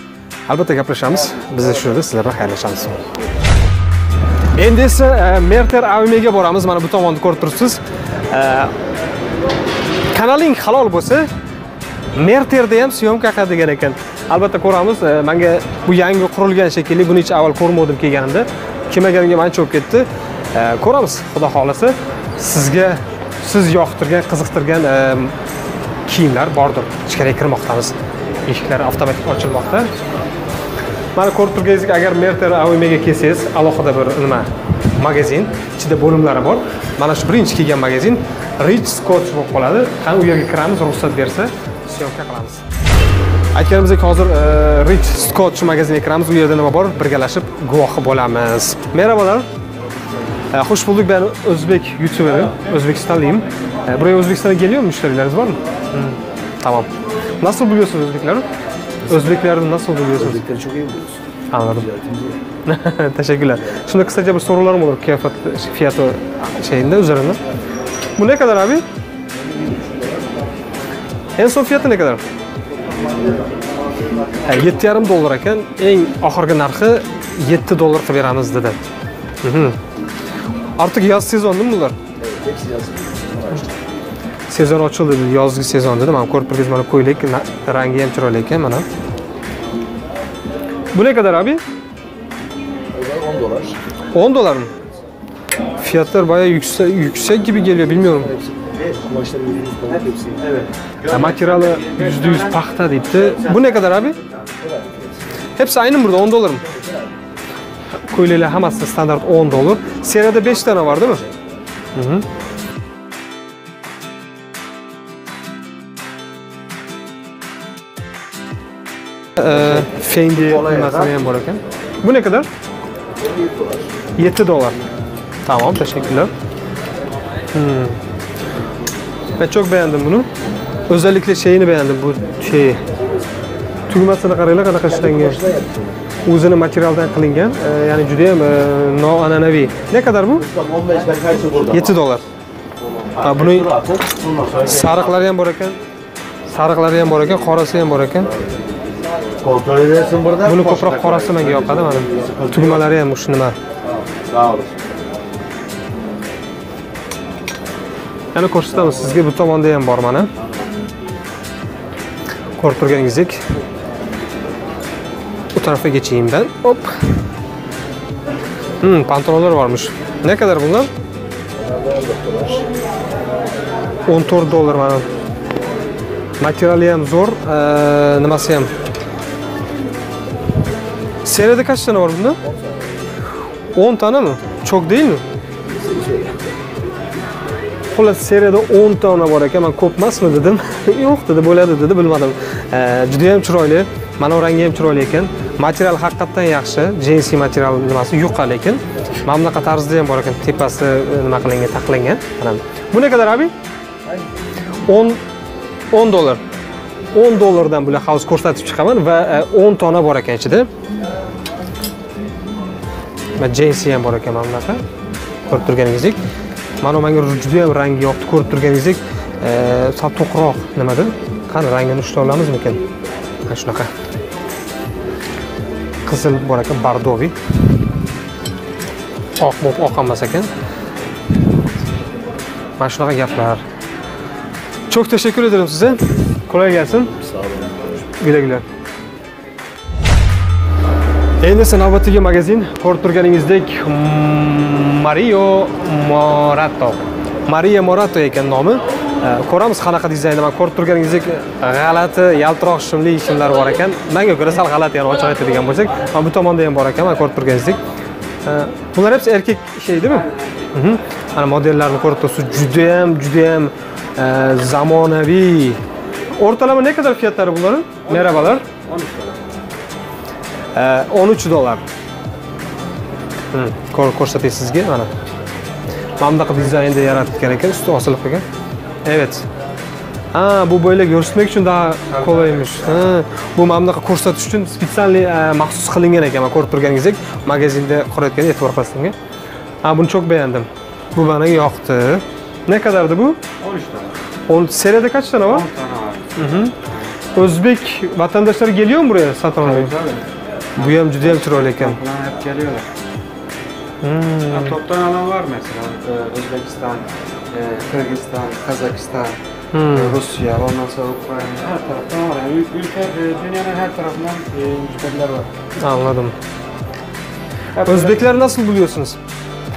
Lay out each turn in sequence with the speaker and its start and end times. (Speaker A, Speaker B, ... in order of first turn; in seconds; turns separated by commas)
Speaker A: 0.5-3.0, Speaker A: 4.5-7.8, Speaker A: 8.3-8.7, Speaker A: 10.1-11.3, Speaker A: 12.2-25.4, Speaker A: 26.1-27.9, Speaker A: 28.5-29.9, Speaker A: 31.1-42.6, Speaker A: 43.5-49.5, Speaker A: 50.5-56.9, Speaker A: 57.4-58.5, Speaker A: 59.1-60.5, Speaker B: 60.4-61.2, Speaker A: 61.5-62.0, Speaker B: 62.0-62.3, Speaker A: 62.7-67.4, Speaker A: 68.2-68.8, Speaker A: 71.4-72.2, Speaker A: 74.4-78.8, Speaker A: 79.4-79.8, Speaker A: 80.8-82.0, Speaker B: 82.3-83.7, Speaker A: 84.5-88.9, Speaker A: 90.9-91.6, Speaker B: 93.0-93.8, Speaker A: 94.1-94.7, Speaker A: 95.8-98.3, Speaker B: 98.5-100.5, Speaker A: 101.1-104.2, Speaker A: 105.6-106.7, Speaker A: 108.1-111.3, Speaker A: 112.0-112.3, Speaker A: 119.4-122.5, Speaker B: 123.4-123.8, Speaker A: 124.2-124.8, Speaker A: 125.5-126.3, Speaker A: 127.5-128.0, Speaker A: 129.4-130.3, Speaker A: 130.9-132.8, Speaker A: 133.9-135.5, Speaker B: 135.5-135.8, Speaker A: 136.2-140.5, Speaker B: 140.6-141.7, Speaker A: 141.6-142.2, Speaker A: 143.2-143.8, Speaker B: 143.5-144.7, Speaker A: 144.6-145.8, Speaker A: 146.5-148.3, Speaker B: 149.4-152.4, Speaker A: 150.4-153.6, Speaker B: 154.1-154.8, Speaker A: 158.3-160.3, Speaker A: 162.6-163.4, Speaker A: 165.6-166.9, Speaker A: 168.8-170.9, Speaker B: 172.1-172.5, Speaker A: 174.1-175.1, Speaker A: 176.4-178.7, Speaker A: 181.2-182.4, Speaker A: 183.8-185.2, Speaker B: 185.9-186.4, Speaker A: 187.9-203.5, Speaker A: 204.9-205.2, Speaker A: 205.9-206.4, Speaker A: 207.1-210.7, Speaker A: 213.4-214.8, Speaker A: 215.5-216.2, Speaker A: 216.8-222.8, Speaker A: 223.5-223.9, Speaker A: 226.1-227.3, Speaker A: 229.4-230.5, Speaker A: 232.8-233.6, Speaker A: 234.9-237.2, Speaker B: 237.4-237.9, Speaker A: 238.2-238.7, Speaker A: 241.4-257.8, Speaker A: 258.4-265.8, Speaker C: 260.0-260.7, Speaker A: 266.4-268.6, Speaker C: 268.1-269.4, Speaker A: 270.8-271.8, Speaker A: 273.5-275.1, Speaker A: 276.2-278.4, Speaker A: 279.1-279.4, Speaker A: 280.3-289.1, Speaker A: 289.8-293.4, Speaker C: 293.6-294.1, Speaker A: 294.5-295.6, Speaker C: 295.4-297.2, Speaker A: 296.4-296.8, Speaker A: 297.4-299.9, Speaker C: 299.6-302.9, Speaker A: 300.8-302.0, Speaker A: 304.0-304.8, Speaker C: 304.5-309.4, Speaker A: 309.7-310.2, Speaker C: 309.9-315.5, Speaker A: 315.8-316.4, Speaker C: 317.8-318.2, Speaker A: 317.9-319.2